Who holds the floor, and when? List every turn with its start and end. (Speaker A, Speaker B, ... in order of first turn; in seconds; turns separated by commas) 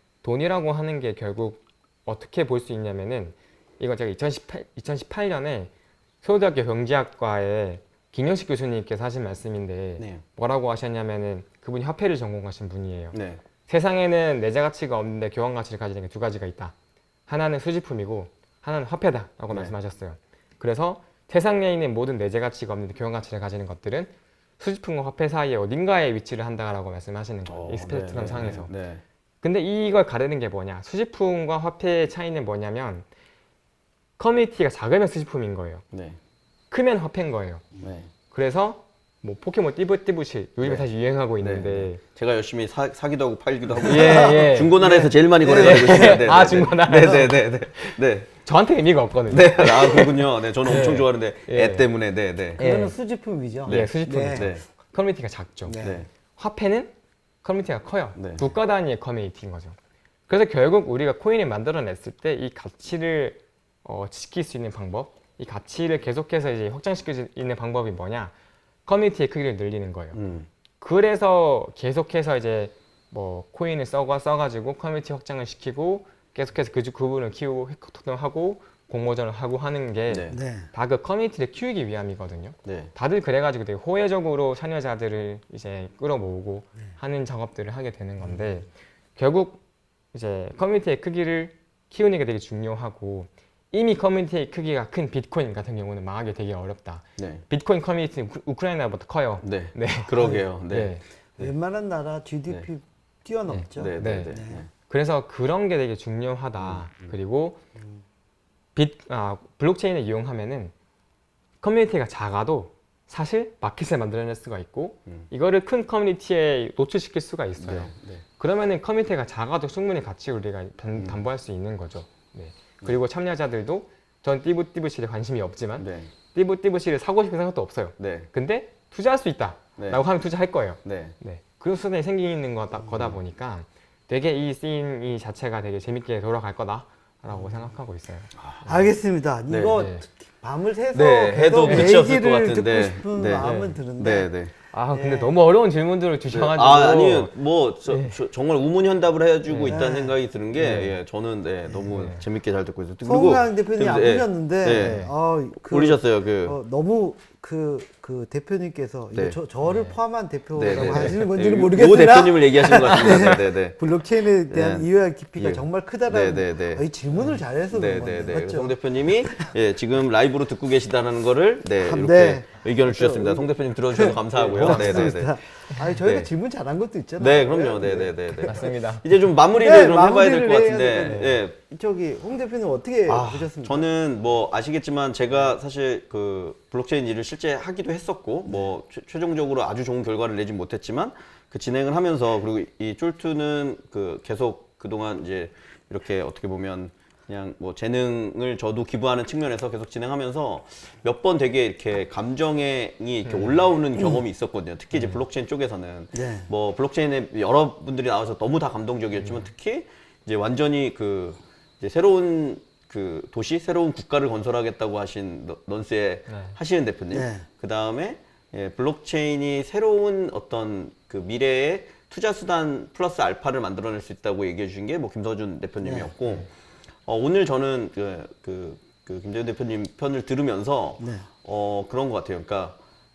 Speaker A: 0.2-5.7, Speaker A: 6.2-16.7, Speaker B: 13.1-13.4, Speaker A: 17.3-28.7, Speaker B: 27.5-29.0, Speaker A: 29.4-33.1, Speaker A: 34.2-35.8, Speaker B: 35.9-36.2, Speaker A: 36.7-37.6, Speaker B: 37.8-38.1, Speaker A: 38.3-42.0, Speaker B: 41.4-48.3, Speaker A: 43.8-51.9, Speaker C: 44.0-46.3, Speaker B: 49.3-52.6, Speaker A: 52.6-52.9, Speaker C: 52.6-54.6, Speaker B: 53.6-54.6, Speaker A: 53.7-55.8, Speaker C: 55.6-56.1, Speaker B: 55.8-56.1, Speaker A: 56.4-59.8, Speaker B: 58.1-58.5, Speaker A: 60.3-68.3, Speaker A: 68.9-70.2, Speaker B: 70.1-70.5, Speaker A: 70.8-89.6, Speaker B: 80.1-80.4, Speaker C: 80.3-80.7, Speaker B: 82.6-82.9, Speaker A: 90.1-101.0, Speaker B: 97.2-97.5, Speaker B: 99.4-101.5, Speaker C: 101.4-104.6, Speaker A: 103.5-107.6, Speaker B: 103.8-104.7, Speaker B: 106.6-107.0, Speaker A: 108.8-110.7, Speaker A: 111.6-138.3, Speaker B: 117.6-118.2, Speaker B: 125.8-126.1, Speaker B: 128.0-128.3, Speaker B: 130.8-131.2, Speaker B: 138.4-138.8, Speaker C: 138.7-144.3, Speaker B: 139.5-139.8, Speaker A: 139.8-140.0, Speaker B: 140.9-144.5, Speaker A: 141.6-142.0, Speaker A: 143.4-143.8, Speaker A: 144.7-147.3, Speaker C: 144.9-145.3, Speaker B: 146.3-155.1, Speaker A: 147.9-148.2, Speaker A: 149.5-149.8, Speaker C: 149.6-150.2, Speaker A: 150.6-151.0, Speaker A: 151.9-152.2, Speaker C: 153.0-168.8, Speaker A: 154.7-155.1, Speaker B: 155.6-156.6, Speaker A: 159.6-160.0, Speaker B: 160.6-163.8, Speaker A: 160.7-161.2, Speaker B: 164.5-166.9, Speaker B: 167.7-175.4, Speaker C: 171.8-178.6, Speaker A: 174.6-175.1, Speaker B: 176.0-176.3, Speaker B: 177.2-181.6, Speaker A: 178.4-179.1, Speaker C: 179.5-183.9, Speaker B: 183.1-226.5, Speaker A: 203.2-203.6, Speaker A: 204.9-205.2, Speaker C: 206.1-206.5, Speaker A: 209.2-209.5, Speaker A: 216.3-216.6, Speaker C: 217.1-217.5, Speaker C: 225.8-226.1, Speaker B: 227.1-232.8, Speaker C: 231.0-231.3